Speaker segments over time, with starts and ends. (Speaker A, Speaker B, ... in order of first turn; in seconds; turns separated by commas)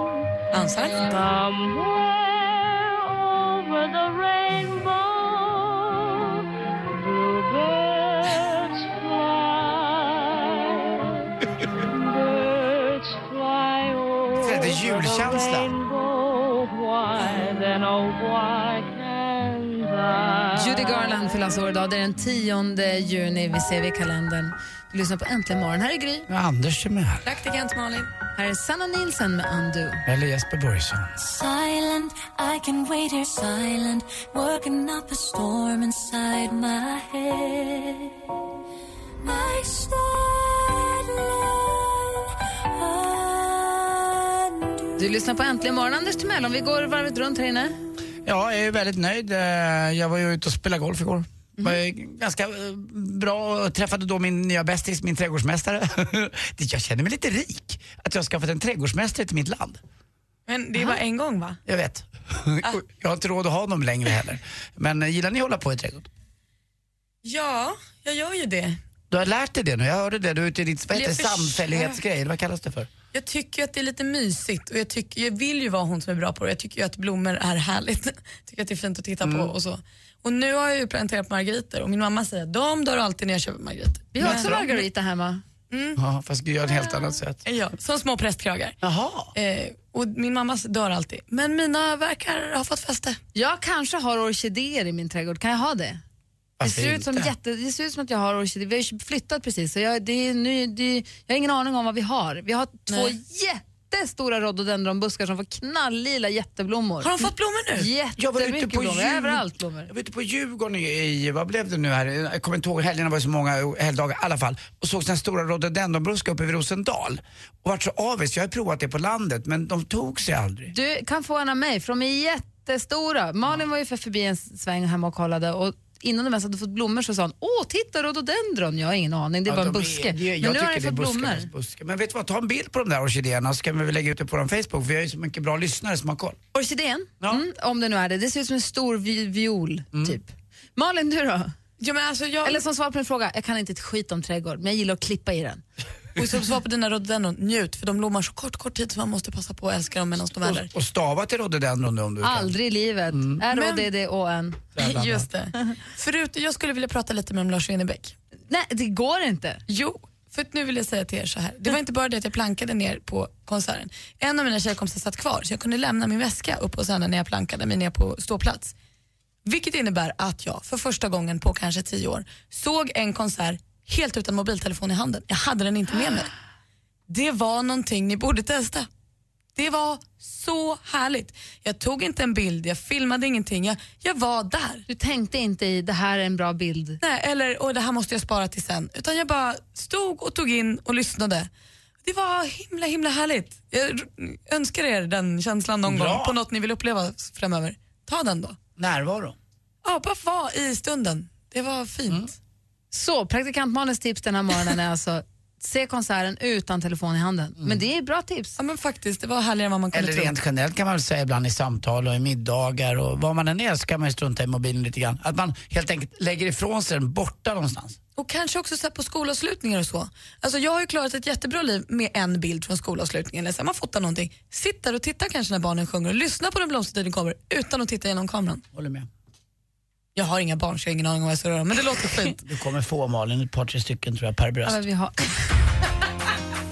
Speaker A: 0.5-1.2, Speaker B: 0.9-21.3, Speaker C: 14.3-15.7, Speaker D: 20.6-26.3, Speaker C: 26.3-27.3, Speaker A: 27.2-28.1, Speaker D: 28.4-30.0, Speaker C: 30.1-31.3, Speaker E: 31.2-38.2, Speaker E: 39.2-41.6, Speaker E: 42.7-44.8, Speaker D: 45.0-47.8, Speaker C: 48.2-59.8, Speaker A: 60.5-61.6, Speaker C: 61.7-66.1, Speaker A: 67.2-68.8, Speaker C: 69.1-72.9, Speaker A: 70.9-72.0, Speaker A: 73.1-84.7, Speaker C: 79.2-79.5, Speaker D: 84.1-85.4, Speaker C: 84.2-84.8, Speaker A: 85.7-86.0, Speaker C: 86.0-87.4, Speaker A: 87.4-88.8, Speaker C: 88.8-89.3, Speaker A: 89.3-93.2, Speaker D: 93.3-96.0, Speaker C: 96.6-97.3, Speaker D: 96.6-109.9, Speaker A: 102.9-103.2, Speaker A: 107.0-107.9, Speaker C: 108.2-120.7, Speaker D: 120.7-131.5, Speaker C: 129.5-136.4, Speaker D: 136.5-141.6, Speaker A: 141.8-142.6, Speaker D: 142.4-145.6, Speaker A: 146.2-150.7, Speaker C: 150.4-152.5, Speaker D: 152.2-154.7, Speaker C: 153.1-153.4, Speaker A: 153.5-153.9, Speaker C: 154.8-155.3, Speaker A: 154.8-158.2, Speaker D: 158.5-159.6, Speaker A: 159.7-168.7, Speaker A: 169.5-176.3, Speaker A: 177.1-178.9, Speaker A: 179.6-184.8, Speaker D: 184.9-187.0, Speaker A: 187.0-191.5, Speaker A: 192.0-198.6, Speaker C: 195.9-196.4, Speaker C: 198.8-199.4, Speaker A: 199.8-202.3, Speaker D: 202.9-208.6, Speaker A: 208.6-210.3, Speaker C: 209.9-218.0, Speaker A: 218.2-228.6, Speaker C: 228.7-229.1, Speaker A: 230.2-232.4, Speaker C: 232.4-234.8, Speaker D: 234.7-235.3